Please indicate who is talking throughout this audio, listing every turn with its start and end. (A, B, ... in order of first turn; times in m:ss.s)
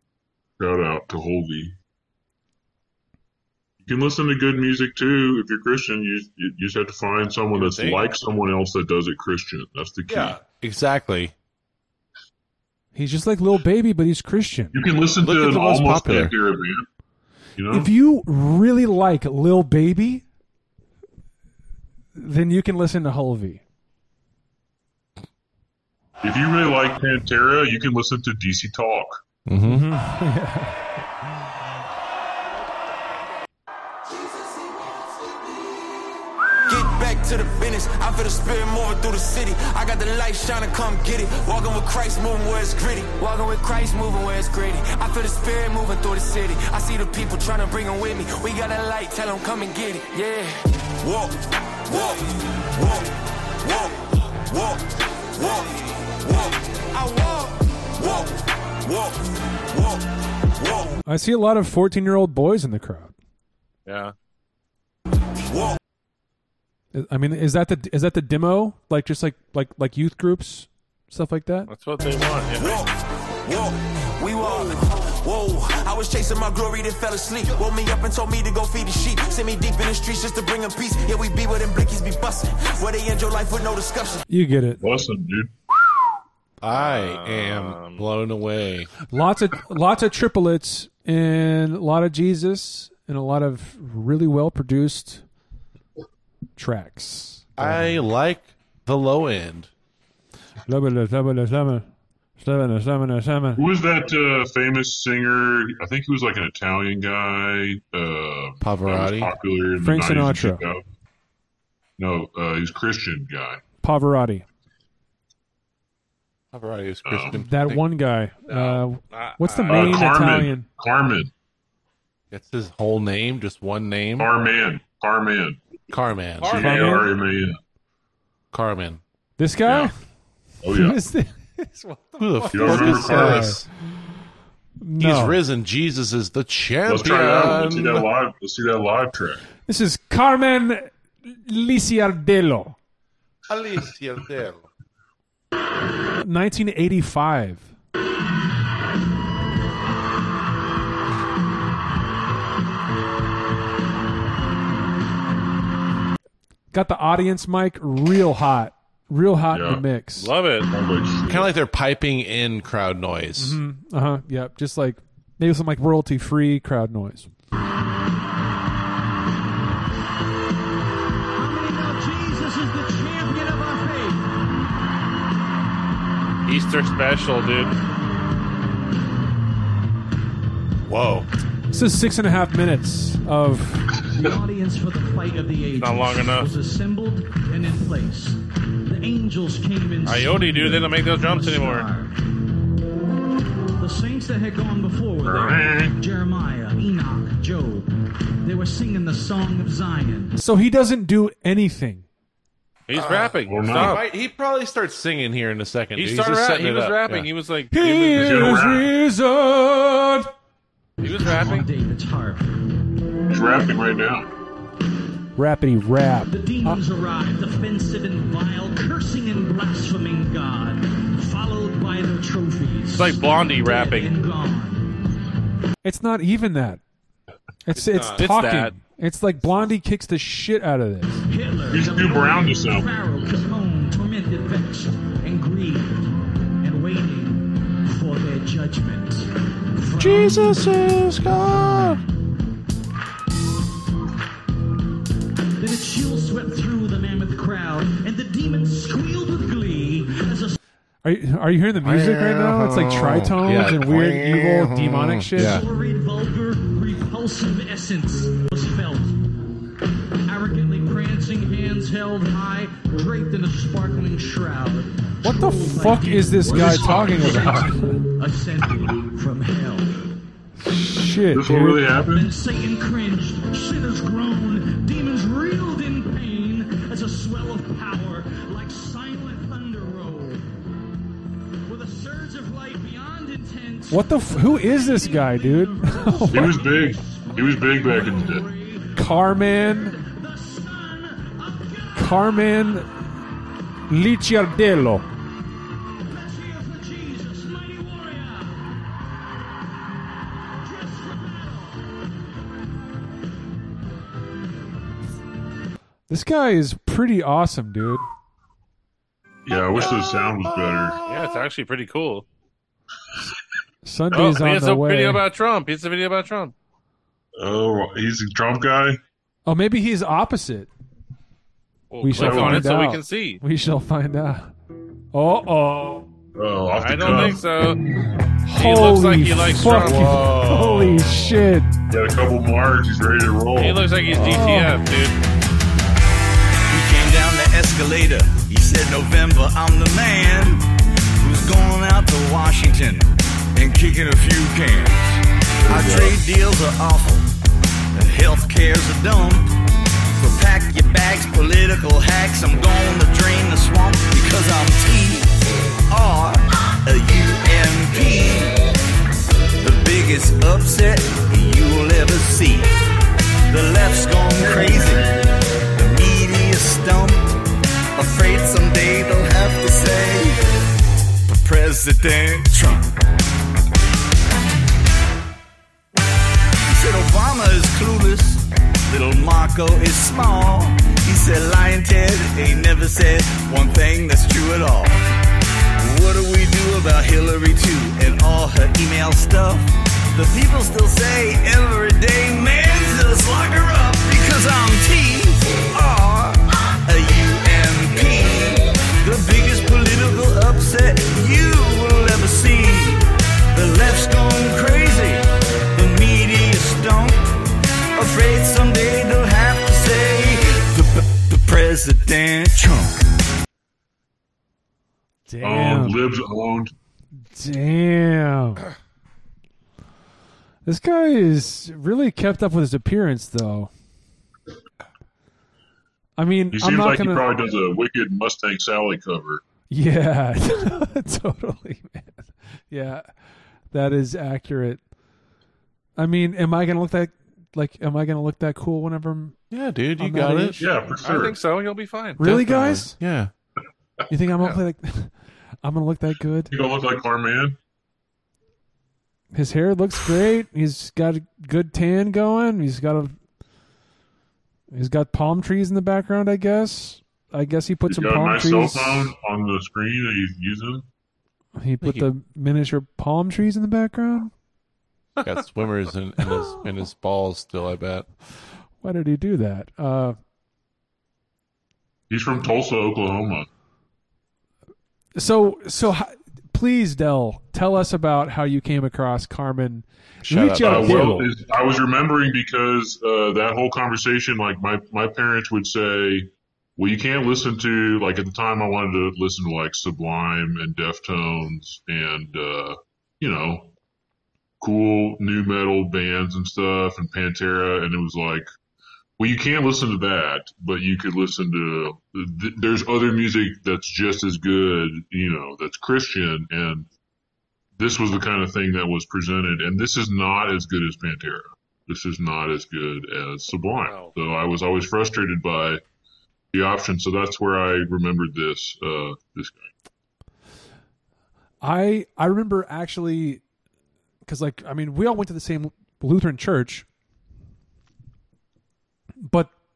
0:00.6-0:01.8 A
0:03.8-0:10.4 A
0:07.6-0:08.0 B
0:10.1-0:11.3 C
0:13.0-0:14.8 D
0:14.7-0:16.9 A
0:15.2-0:16.3 C
0:17.6-0:17.9 A
0:17.7-0:20.2 D
0:22.2-0:23.6 D
0:26.2-0:29.2 A
0:29.5-0:29.9 C
0:29.6-0:30.8 D
0:36.7-1:01.0 E
1:01.0-1:03.1 D
1:03.9-1:04.1 B
1:06.9-1:11.7 D
1:11.7-1:12.8 B
1:12.6-1:12.9 E
1:13.4-1:24.2 E
1:24.3-1:24.8 D
1:24.8-1:25.5 A
1:26.6-1:28.9 C
1:26.7-1:28.0 B
1:29.1-1:35.2 D
1:36.6-1:38.0 D
1:37.6-1:39.7 C
1:40.7-1:41.9 D
1:42.4-1:43.6 D
1:43.6-1:50.8 A
1:48.6-1:49.3 C
1:49.8-1:50.6 D
1:52.0-1:53.6 A
1:53.8-1:54.4 D
1:56.5-1:57.8 C
1:57.1-1:57.3 A
1:57.3-2:00.7 D
1:58.5-2:00.1 B
1:59.7-2:01.3 A
2:02.3-2:04.3 C
2:04.2-2:05.6 A
2:05.9-2:06.7 C
2:06.4-2:07.0 B
2:06.5-2:07.6 A
2:06.6-2:07.1 D
2:08.5-2:09.0 C
2:09.4-2:10.0 D
2:10.6-2:11.0 A
2:10.7-2:13.6 D
2:12.2-2:13.7 C
2:12.5-2:13.6 A
2:14.8-2:15.4 D
2:15.0-2:18.1 C
2:16.9-2:19.4 A
2:19.7-2:22.8 D
2:23.5-2:24.7 C
2:26.2-2:27.7 D
2:36.7-2:40.3 D
2:39.5-2:39.8 A
2:40.2-2:40.7 B
2:40.7-2:41.5 A
2:41.3-2:43.6 C
2:43.4-2:47.3 D
2:51.3-2:54.4 F
2:56.5-2:57.8 B
3:00.9-3:01.3 C
3:01.7-3:04.0 D
3:04.1-3:12.1 F
3:05.8-3:06.5 B
3:10.0-3:11.9 B
3:13.8-3:17.9 F
3:15.2-3:16.0 A
3:18.4-3:20.4 F
3:20.4-3:22.0 D
3:22.9-3:24.0 B
3:22.9-3:27.3 C
3:23.5-3:24.0 A
3:26.0-3:28.5 B
3:27.7-3:30.3 D
3:28.2-3:28.9 A
3:31.0-3:31.7 B
3:31.1-3:32.5 F
3:33.3-3:34.3 A
3:35.4-3:36.8 D
3:36.3-3:44.9 F
3:43.0-3:44.1 B
3:45.8-3:46.8 D
3:47.7-3:51.2 D
3:47.9-3:48.2 C
3:47.9-3:48.8 B
3:51.3-3:56.1 F
3:51.7-3:52.9 A
3:56.6-4:00.6 F
4:00.0-4:02.0 C
4:05.6-4:10.6 F
4:11.0-4:15.6 D
4:11.8-4:15.6 C
4:15.4-4:19.2 F
4:20.3-4:29.9 F
4:25.2-4:28.0 D
4:26.4-4:27.6 A
4:30.6-4:31.8 D
4:31.3-4:32.3 A
4:32.1-4:40.5 F
4:41.7-4:52.4 F
4:43.9-4:46.6 D
4:46.3-4:48.5 A
4:49.0-4:50.0 D
4:52.0-4:52.9 D
4:53.9-4:55.0 D
4:56.0-4:58.7 F
5:00.5-5:01.9 F
5:06.1-5:08.0 D
5:09.5-5:11.0 A
5:11.1-5:12.3 B
5:13.8-5:15.2 D
5:14.1-5:16.5 B
5:17.4-5:19.0 A
5:19.5-5:20.7 D
5:21.9-5:23.4 B
5:22.0-5:24.5 D
5:22.2-5:22.7 A
5:25.1-5:26.0 D
5:26.4-5:27.4 A
5:26.8-5:27.8 B
5:28.5-5:31.7 D
5:28.6-5:31.3 B
5:31.9-5:33.9 A
5:33.6-5:35.2 B
5:34.1-5:34.8 D
5:36.7-5:40.7 G
5:41.2-5:47.3 G
5:45.6-5:46.2 A
5:47.9-5:49.5 G
5:50.2-5:55.3 G
5:55.9-5:58.6 G
5:59.6-6:02.7 G
6:03.5-6:05.1 G
6:05.8-6:07.3 G
6:08.0-6:10.4 G
6:11.3-6:12.9 G
6:16.7-6:25.0 G
6:25.8-6:47.3 G
6:48.0-6:53.0 G
6:55.3-6:56.0 D
6:55.4-6:56.7 A
6:57.3-6:58.6 D
7:00.7-7:03.7 D
7:06.2-7:07.3 D
7:06.5-7:09.4 A
7:09.7-7:13.1 D
7:13.7-7:14.8 D
7:16.0-7:19.4 D
7:19.5-7:20.6 C
7:20.0-7:20.7 D
7:20.6-7:21.4 A
7:21.0-7:22.3 B
7:22.2-7:22.9 D
7:22.2-7:23.3 C
7:24.1-7:26.5 D
7:26.5-7:27.6 A
7:29.3-7:33.2 D
7:34.7-7:39.1 D
7:37.9-7:40.9 A
7:41.6-7:44.3 D
7:41.8-7:42.1 C
7:45.2-7:48.1 C
7:48.8-7:50.2 D
7:52.1-7:53.5 A
7:55.2-8:01.3 D
8:00.2-8:01.2 C
8:00.6-8:13.7 A
8:14.6-8:18.5 A
8:19.2-8:26.9 A
8:27.8-8:35.8 A
8:33.8-8:34.1 B
8:36.5-8:39.7 A
8:41.6-8:43.4 D
8:44.3-8:46.9 D
8:49.2-8:49.5 D